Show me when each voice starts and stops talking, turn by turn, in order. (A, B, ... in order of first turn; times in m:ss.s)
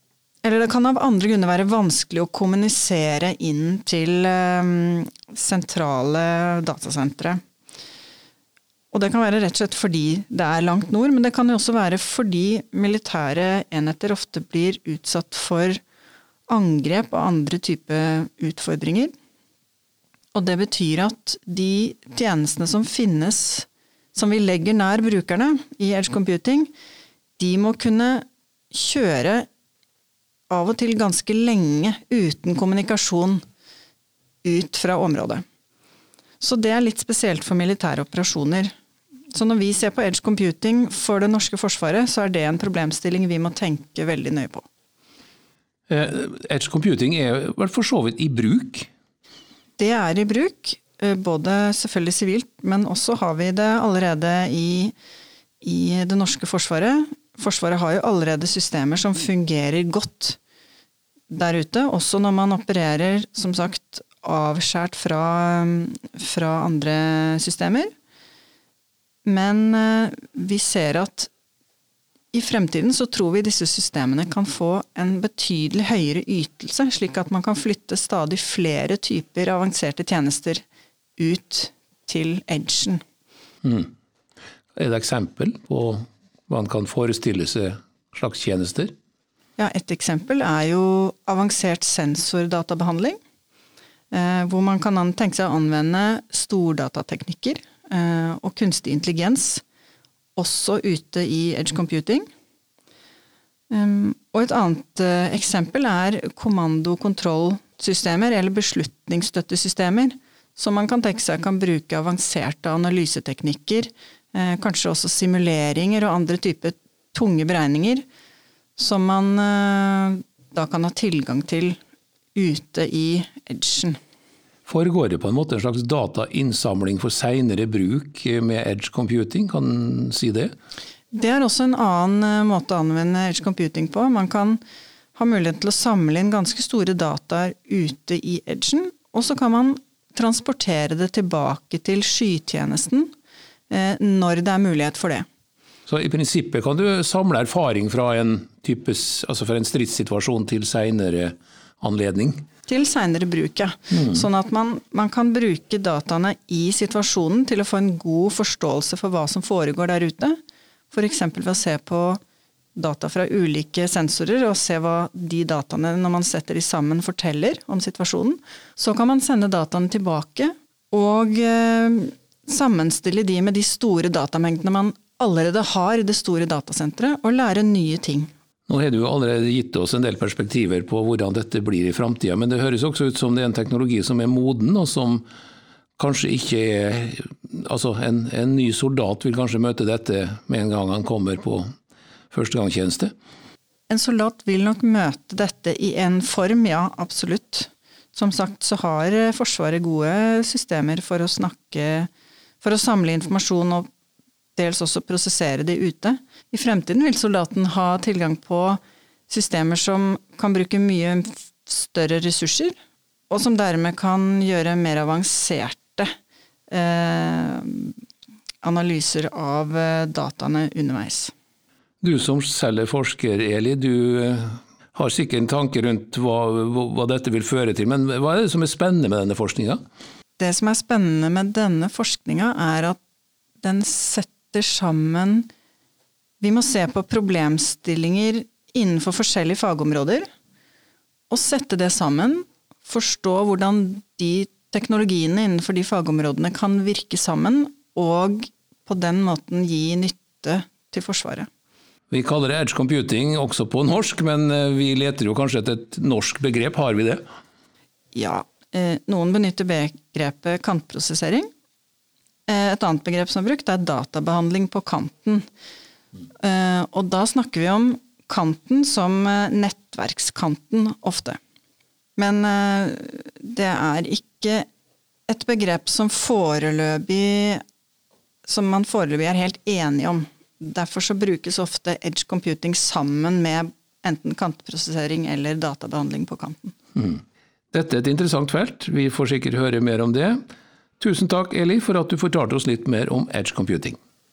0:00.4-0:07.4 A
0:08.9-0:15.8 A
0:16.5-0:19.1 A
0:20.3-0:26.7 A
0:27.4-0:29.5 A
0:30.5-0:33.4 A
0:34.4-0:35.4 A
0:36.4-0:38.7 A
0:39.3-0:44.6 A
0:45.9-0:48.9 B
0:49.8-0:54.9 A
0:55.6-1:00.4 A
1:01.3-1:07.9 A
1:09.2-1:11.3 A
1:12.3-1:20.6 A
1:21.2-1:23.0 A
1:23.6-1:23.9 B
1:24.8-1:28.9 B
1:29.6-1:33.2 A
1:34.1-1:39.6 A
1:40.4-1:42.3 A
1:43.7-1:58.0 A
1:58.8-2:01.8 A
2:02.3-2:04.0 A
2:04.7-2:10.5 B
2:11.1-2:14.6 A
2:15.1-2:23.1 A
2:23.7-2:25.2 A
2:25.9-2:32.4 B
2:32.7-2:40.4 A
2:40.9-2:42.2 A
2:42.7-2:58.3 A
2:58.7-3:05.2 B
3:06.0-3:11.7 B
3:12.3-3:13.1 B
3:13.9-3:22.1 A
3:22.6-3:23.9 A
3:24.6-3:32.7 A
3:33.3-3:36.1 A
3:36.7-3:37.9 A
3:38.6-3:41.3 A
3:42.0-3:49.8 B
3:50.4-3:53.0 A
3:53.6-3:55.5 A
3:56.4-4:00.2 A
4:01.3-4:11.5 A
4:12.1-4:17.2 B
4:18.1-4:21.5 A
4:22.5-4:25.4 A
4:26.4-4:31.4 A
4:32.2-4:34.7 A
4:35.3-4:37.6 A
4:38.4-4:46.7 A
4:47.0-4:50.4 B
4:51.0-4:54.0 B